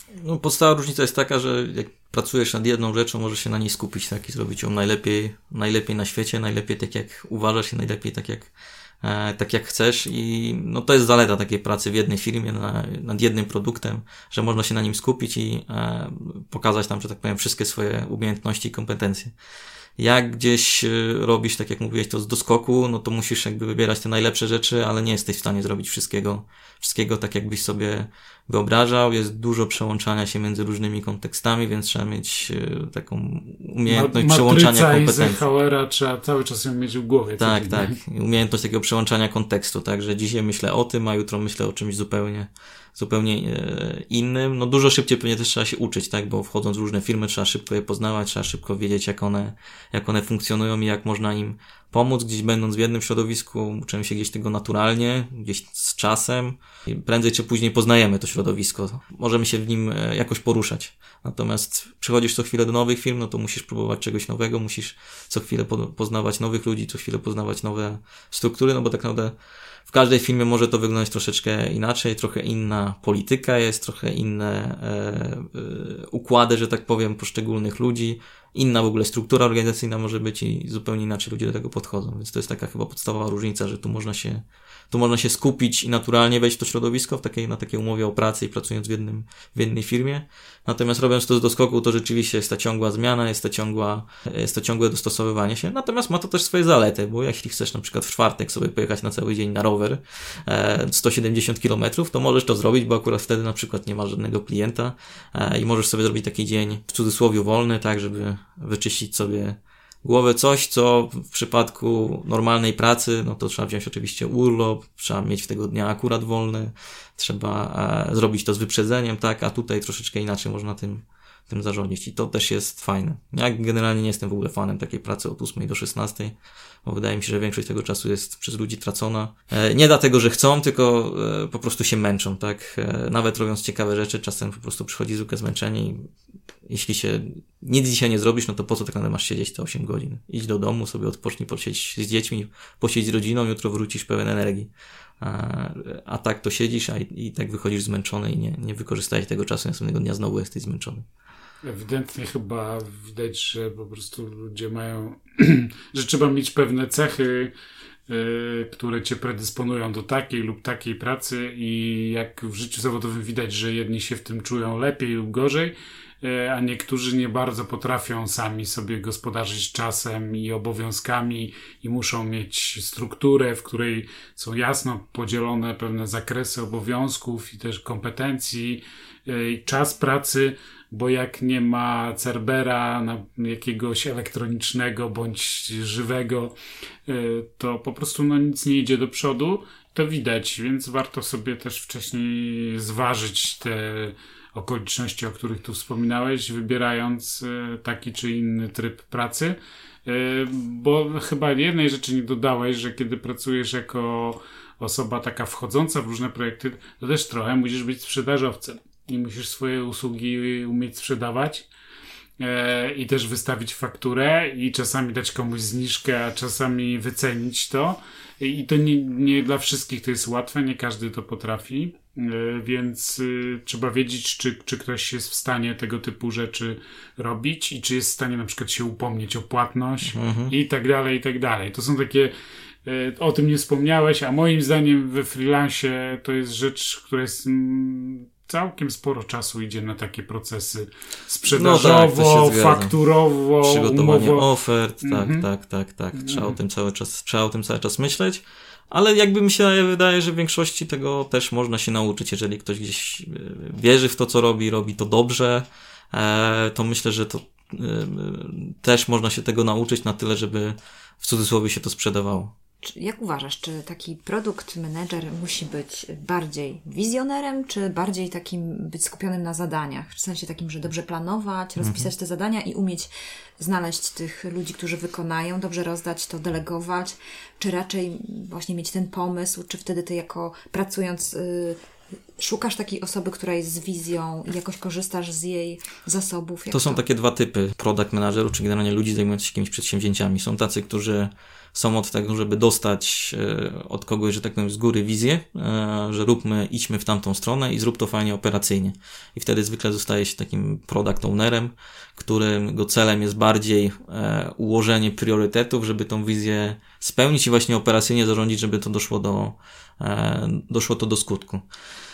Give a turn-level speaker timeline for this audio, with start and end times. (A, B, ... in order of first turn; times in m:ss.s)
0:00.2-0:08.5 A
0:09.0-0:19.3 A
0:20.0-0:35.4 A
0:33.9-0:37.9 B
0:37.4-1:09.3 A
1:09.9-2:16.1 A
2:16.6-2:31.0 A
2:31.6-2:37.5 B
2:38.1-3:06.5 B
3:07.1-3:31.7 B
3:32.4-3:52.3 B
3:50.1-3:50.5 A
3:52.8-4:04.5 B
4:01.5-4:02.9 A
4:03.6-4:22.5 A
4:05.0-4:05.4 B
4:06.1-4:06.6 B
4:22.8-4:41.8 C
4:31.8-4:32.1 A
4:42.4-4:47.0 C
4:46.7-5:11.6 A